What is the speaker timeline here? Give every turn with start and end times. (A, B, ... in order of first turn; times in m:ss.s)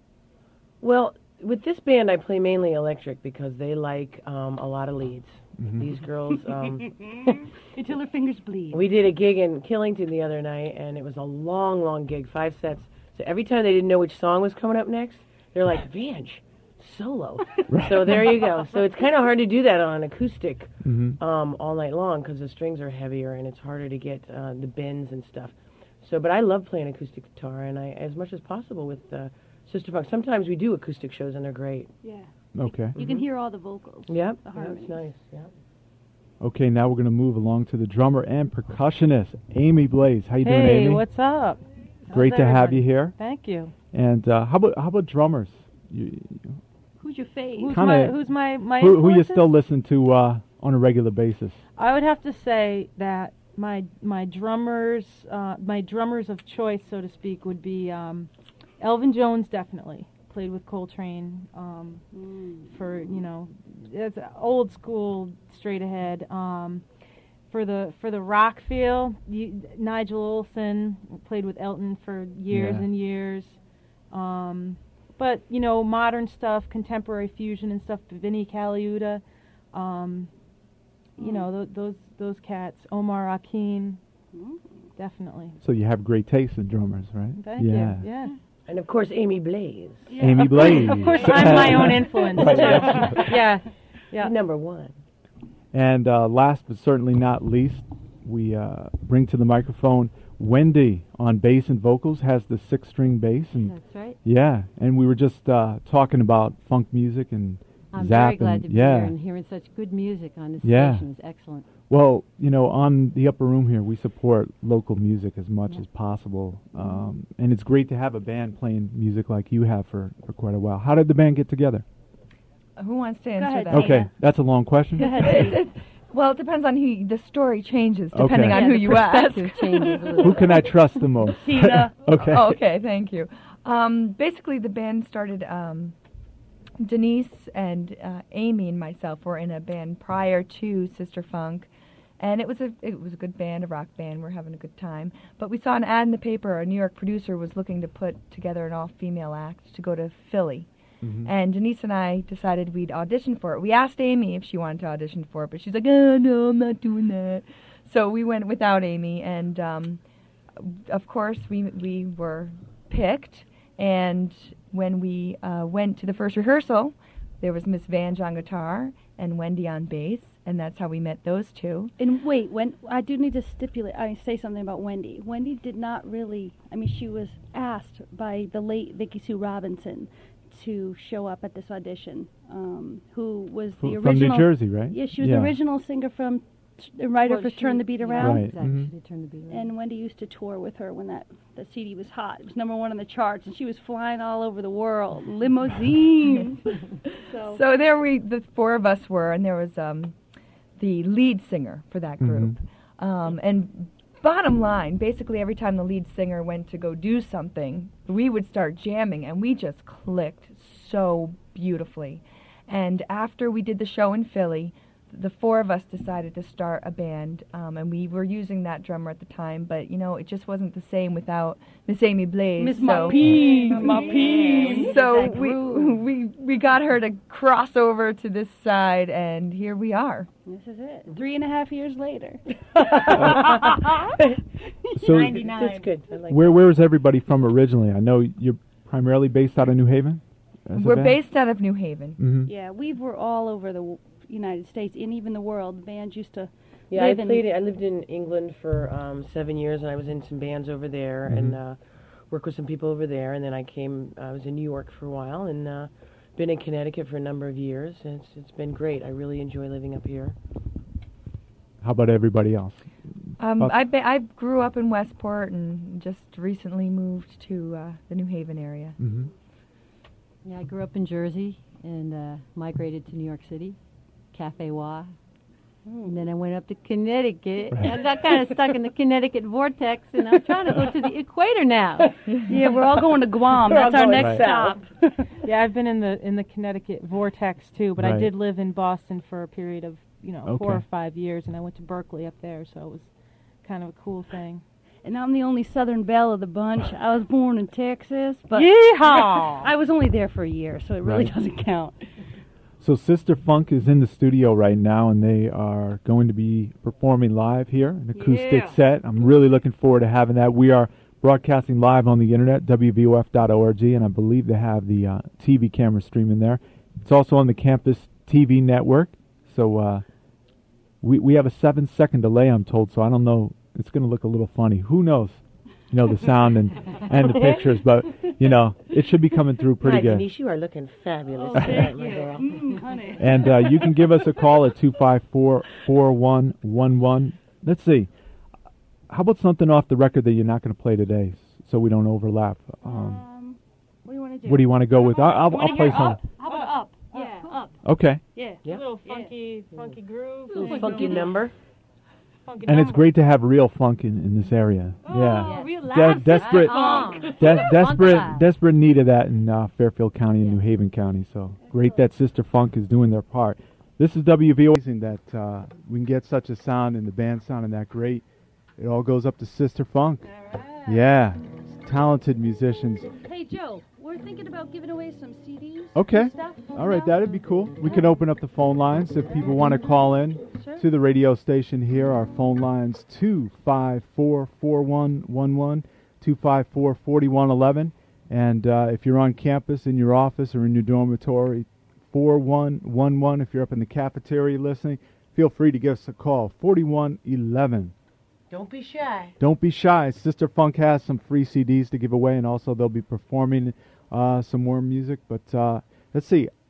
0:00.8-0:07.4 A
0:05.6-0:05.9 B
0:06.4-0:08.8 C
0:08.7-0:31.9 A
0:17.7-0:18.3 B
0:20.8-0:21.2 B
0:32.0-0:35.1 C
0:32.6-0:33.0 B
0:33.0-0:33.3 A
0:34.1-0:35.5 A
0:36.4-0:41.0 B
0:40.4-0:43.7 D
0:42.1-0:43.2 B
0:43.9-0:46.6 B
0:47.0-0:47.8 C
0:47.6-0:49.6 D
0:47.7-0:48.2 B
0:48.8-0:51.6 B
0:51.8-1:02.1 D
1:02.1-1:03.3 C
1:02.7-1:06.8 D
1:07.5-1:20.3 D
1:12.5-1:12.9 B
1:21.2-1:24.0 D
1:21.2-1:21.5 C
1:24.3-1:24.9 C
1:25.0-1:25.6 D
1:25.6-1:28.1 B
1:27.4-1:28.4 D
1:28.7-1:31.7 A
1:30.1-1:33.0 C
1:30.2-1:33.2 B
1:30.4-1:34.3 D
1:32.3-1:33.4 A
1:34.2-1:35.0 A
1:35.7-1:49.2 B
1:43.6-1:44.2 E
1:47.9-1:51.6 E
1:50.6-1:51.1 B
1:51.9-2:01.8 B
2:02.8-2:04.1 F
2:03.4-2:04.1 C
2:03.7-2:05.5 B
2:05.0-2:05.7 C
2:05.2-2:10.3 F
2:08.1-2:08.8 B
2:08.4-2:10.8 E
2:08.6-2:10.5 C
2:10.2-2:12.6 B
2:11.2-2:12.0 C
2:12.2-2:16.0 F
2:16.8-2:30.7 F
2:31.0-2:31.3 B
2:31.2-2:40.0 F
2:40.6-2:51.9 F
2:52.0-3:08.5 C
3:03.8-3:05.6 B
3:07.2-3:09.7 E
3:08.2-3:08.9 B
3:09.5-3:17.6 C
3:17.3-3:20.2 F
3:20.8-3:50.3 F
3:22.2-3:22.6 B
3:42.6-3:46.0 C
3:43.5-3:44.2 D
3:43.5-3:45.0 A
3:50.5-3:54.2 C
3:52.8-3:54.3 A
3:54.9-3:55.6 B
3:55.1-3:56.6 A
3:55.2-3:55.9 C
3:56.3-4:01.2 B
4:00.7-4:02.2 F
4:02.2-4:02.5 B
4:02.4-4:07.4 C
4:06.9-4:20.4 A
4:11.3-4:11.6 B
4:21.8-4:23.8 B
4:23.4-4:29.0 F
4:29.0-4:29.3 B
4:30.4-4:33.8 E
4:34.3-4:35.1 E
4:35.8-4:36.2 C
4:36.0-4:42.3 E
4:37.9-4:38.6 C
4:40.4-4:40.9 C
4:42.2-4:45.5 C
4:42.6-4:44.9 A
4:44.2-4:44.4 B
4:45.4-4:54.6 D
4:48.0-4:48.3 B
4:50.4-4:50.8 B
4:55.0-5:02.3 C
4:58.5-4:59.6 D
4:59.1-4:59.7 A
5:01.0-5:01.3 B
5:02.8-5:20.0 B
5:08.1-5:08.8 C
5:21.0-5:30.3 B
5:29.8-5:32.9 A
5:31.3-5:34.0 C
5:31.6-5:31.8 B
5:33.2-5:38.1 B
5:39.1-5:43.2 B
5:42.8-5:49.4 C
5:44.4-5:46.2 B
5:46.4-5:47.5 D
5:47.8-5:48.2 B
5:48.6-5:49.0 A
5:48.6-5:51.5 D
5:50.5-5:51.4 C
5:50.5-5:51.6 A
5:52.4-5:53.1 D
5:52.6-6:08.2 B
5:55.0-5:58.1 C
5:55.2-5:58.4 E
6:01.7-6:02.0 C
6:08.8-6:10.3 B
6:10.2-6:11.1 C
6:10.8-6:13.1 B
6:13.2-6:18.2 C
6:15.9-6:37.9 B
6:20.5-6:20.9 C
6:38.5-6:39.4 A
6:39.4-6:46.5 B